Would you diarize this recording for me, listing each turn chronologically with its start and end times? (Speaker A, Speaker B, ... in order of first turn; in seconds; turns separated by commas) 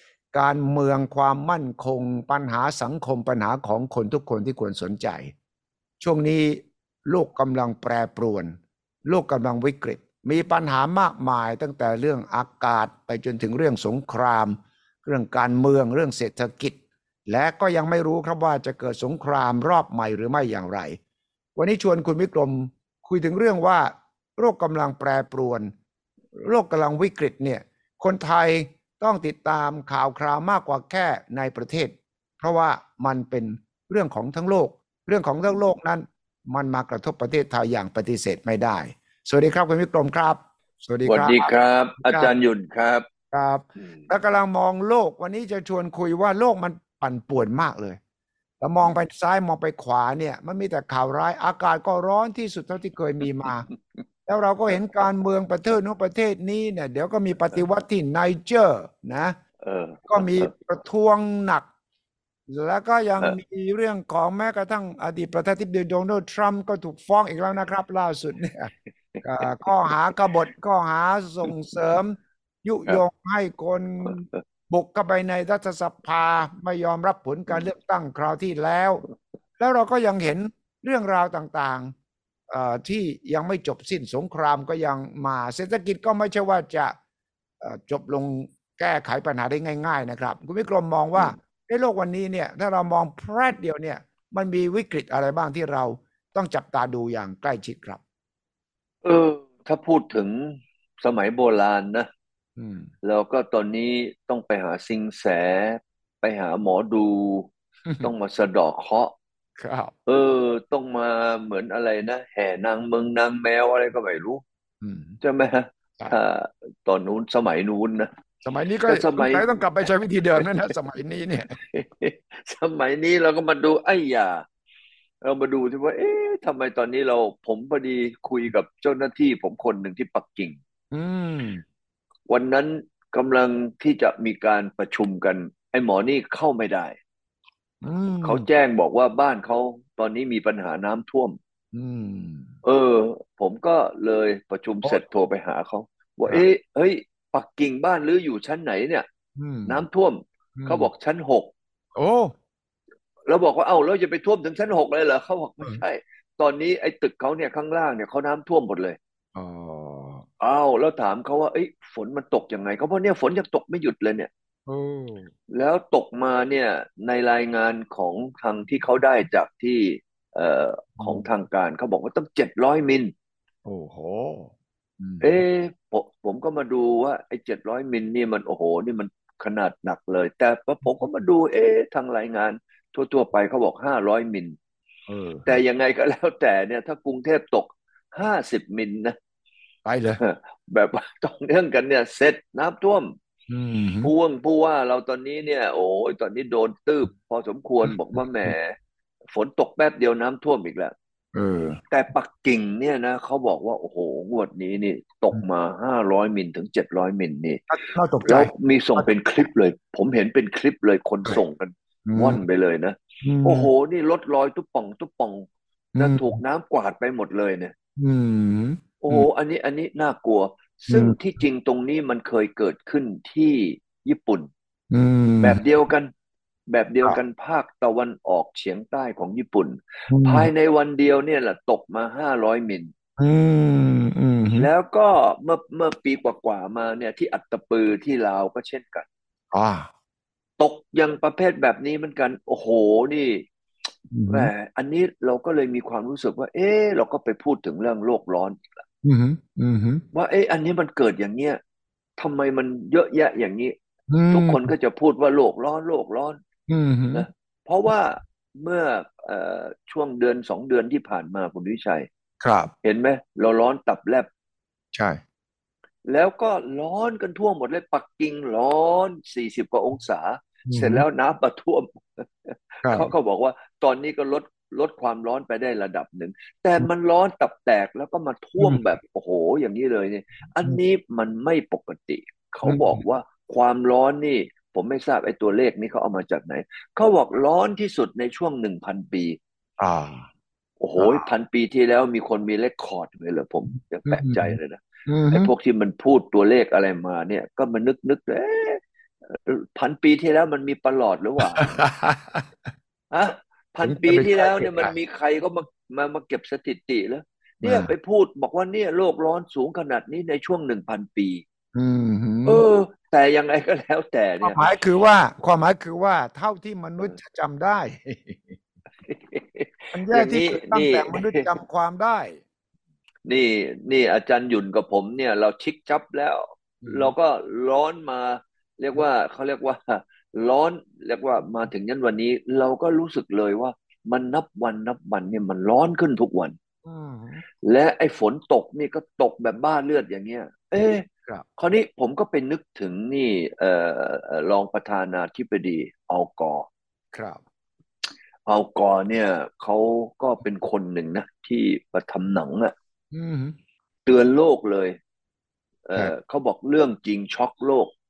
Speaker A: 0.3-5.3, Speaker A: 6.0-21.0, Speaker A: 21.6-25.7, Speaker A: 26.4-41.5, Speaker B: 41.1-43.0, Speaker A: 42.0-42.3, Speaker A: 43.3-48.0, Speaker A: 48.6-53.7, Speaker A: 54.2-59.4, Speaker B: 59.6-60.5, Speaker A: 60.1-61.7, Speaker A: 62.5-79.0, Speaker B: 69.2-69.9, Speaker A: 79.6-81.9, Speaker A: 82.5-86.9, Speaker A: 87.6-98.0, Speaker B: 99.0-102.1, Speaker A: 102.6-102.9, Speaker B: 103.0-107.5, Speaker A: 107.8-108.1, Speaker B: 108.0-109.1, Speaker A: 109.6-109.9, Speaker B: 110.1-114.4, Speaker A: 114.8-115.2, Speaker B: 115.2-118.1, Speaker A: 118.4-121.5, Speaker B: 118.9-119.5, Speaker B: 121.6-124.4, Speaker B: 125.2-130.6, Speaker A: 130.9-131.6, Speaker B: 132.3-137.0, Speaker A: 137.8-138.4, Speaker B: 138.2-141.4, Speaker A: 141.7-142.5, Speaker B: 142.6-149.1, Speaker A: 149.4-149.8, Speaker B: 149.7-151.5, Speaker A: 150.6-150.9, Speaker A: 151.9-152.3, Speaker B: 153.2-159.0, Speaker A: 159.3-160.2, Speaker B: 160.4-164.3, Speaker A: 164.7-165.3, Speaker B: 165.5-173.1, Speaker A: 171.0-171.2, Speaker A: 173.6-175.4, Speaker B: 175.2-184.6, Speaker A: 185.1-185.6, Speaker B: 185.4-189.2, Speaker A: 189.8-190.2, Speaker B: 190.2-193.2, Speaker A: 193.5-194.1, Speaker B: 194.0-198.8, Speaker A: 197.9-198.5, Speaker B: 199.3-200.9, Speaker A: 201.3-201.8, Speaker B: 201.9-207.6, Speaker A: 207.7-209.1, Speaker B: 208.2-217.7, Speaker A: 212.1-212.4, Speaker A: 213.2-213.7, Speaker A: 215.9-216.4, Speaker A: 218.0-219.3, Speaker B: 219.0-224.5, Speaker A: 220.9-221.2, Speaker A: 224.9-225.6, Speaker B: 225.4-226.1, Speaker B: 226.7-232.9, Speaker A: 230.1-230.5, Speaker A: 233.2-234.7, Speaker B: 234.6-239.1, Speaker A: 239.5-239.9, Speaker B: 240.6-243.4, Speaker A: 244.1-244.5, Speaker B: 244.3-248.6, Speaker A: 249.0-250.0, Speaker B: 250.1-251.6, Speaker B: 252.2-253.7, Speaker A: 254.1-254.7, Speaker B: 254.3-256.4, Speaker A: 256.7-257.3, Speaker B: 257.1-262.1, Speaker A: 262.4-262.7, Speaker B: 262.8-264.3, Speaker A: 264.9-265.2, Speaker B: 266.0-289.4, Speaker A: 270.7-271.0, Speaker A: 272.8-273.1, Speaker A: 278.6-278.9, Speaker A: 282.6-283.0, Speaker A: 289.8-290.3, Speaker B: 290.8-301.7, Speaker A: 291.0-291.3, Speaker A: 294.1-295.5, Speaker A: 301.4-302.4, Speaker B: 303.1-311.4, Speaker A: 303.8-304.9, Speaker A: 307.6-307.9, Speaker A: 311.7-312.6, Speaker B: 312.4-314.6, Speaker A: 314.4-318.6, Speaker B: 319.0-321.4, Speaker A: 319.9-322.4, Speaker B: 323.2-336.6, Speaker A: 326.8-327.1, Speaker A: 336.8-337.4, Speaker B: 337.6-341.1, Speaker B: 341.6-346.7, Speaker A: 347.1-347.4, Speaker B: 348.4-352.7, Speaker A: 353.1-353.6, Speaker B: 354.1-355.0, Speaker B: 355.9-357.9